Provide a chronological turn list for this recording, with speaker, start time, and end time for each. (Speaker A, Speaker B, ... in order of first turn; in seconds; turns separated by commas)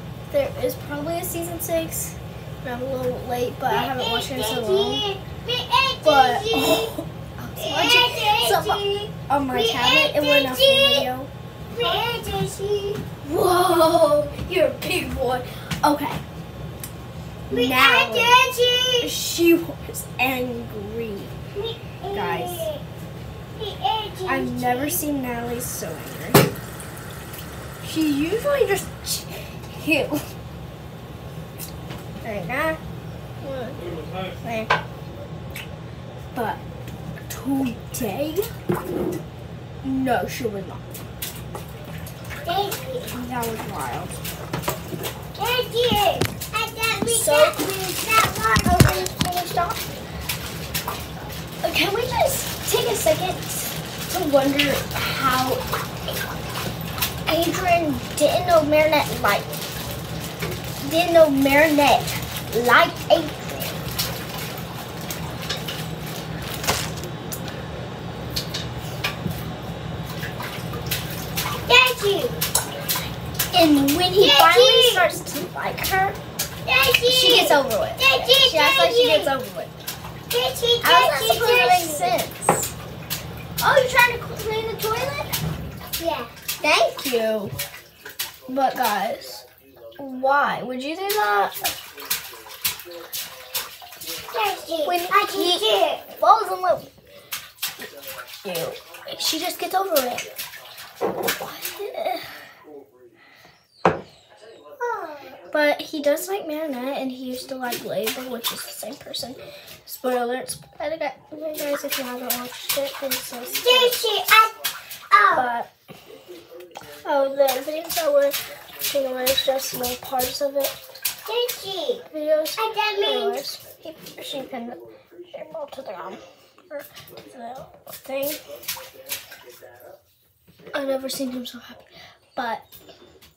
Speaker A: 0.3-5.0, Speaker B: 3.7-6.9, Speaker A: 6.0-11.3, Speaker B: 7.5-8.9, Speaker B: 9.5-11.1, Speaker B: 11.7-13.0, Speaker A: 13.2-16.2, Speaker B: 17.5-19.1, Speaker A: 17.5-18.3, Speaker A: 19.0-21.3, Speaker B: 21.5-22.8, Speaker A: 22.1-22.7, Speaker B: 23.6-25.0, Speaker A: 24.3-26.5, Speaker A: 27.8-30.2, Speaker A: 32.2-32.8, Speaker A: 33.4-33.8, Speaker A: 34.4-34.7, Speaker A: 36.3-36.6, Speaker A: 37.3-38.5, Speaker A: 39.8-40.8, Speaker B: 42.4-43.1, Speaker A: 43.1-44.2, Speaker B: 45.3-49.1, Speaker A: 47.0-47.6, Speaker A: 48.6-49.8, Speaker A: 51.6-55.6, Speaker A: 57.2-59.5, Speaker A: 60.8-63.8, Speaker B: 71.6-72.4, Speaker A: 73.5-76.2, Speaker B: 74.2-75.0, Speaker B: 76.6-79.3, Speaker A: 77.1-79.7, Speaker B: 80.3-82.2, Speaker A: 80.8-82.7, Speaker A: 83.6-85.3, Speaker B: 86.0-86.3, Speaker A: 86.6-87.5, Speaker A: 88.5-89.4, Speaker A: 90.0-91.7, Speaker B: 94.3-96.0, Speaker A: 94.8-96.9, Speaker A: 98.4-100.3, Speaker A: 101.4-102.4, Speaker B: 104.8-105.4, Speaker A: 105.5-114.0, Speaker B: 113.6-114.5, Speaker B: 115.1-115.5, Speaker A: 115.3-115.7, Speaker A: 117.0-120.7, Speaker B: 121.2-122.0, Speaker A: 122.1-128.4, Speaker B: 122.6-123.4, Speaker A: 130.7-131.8, Speaker A: 132.3-132.6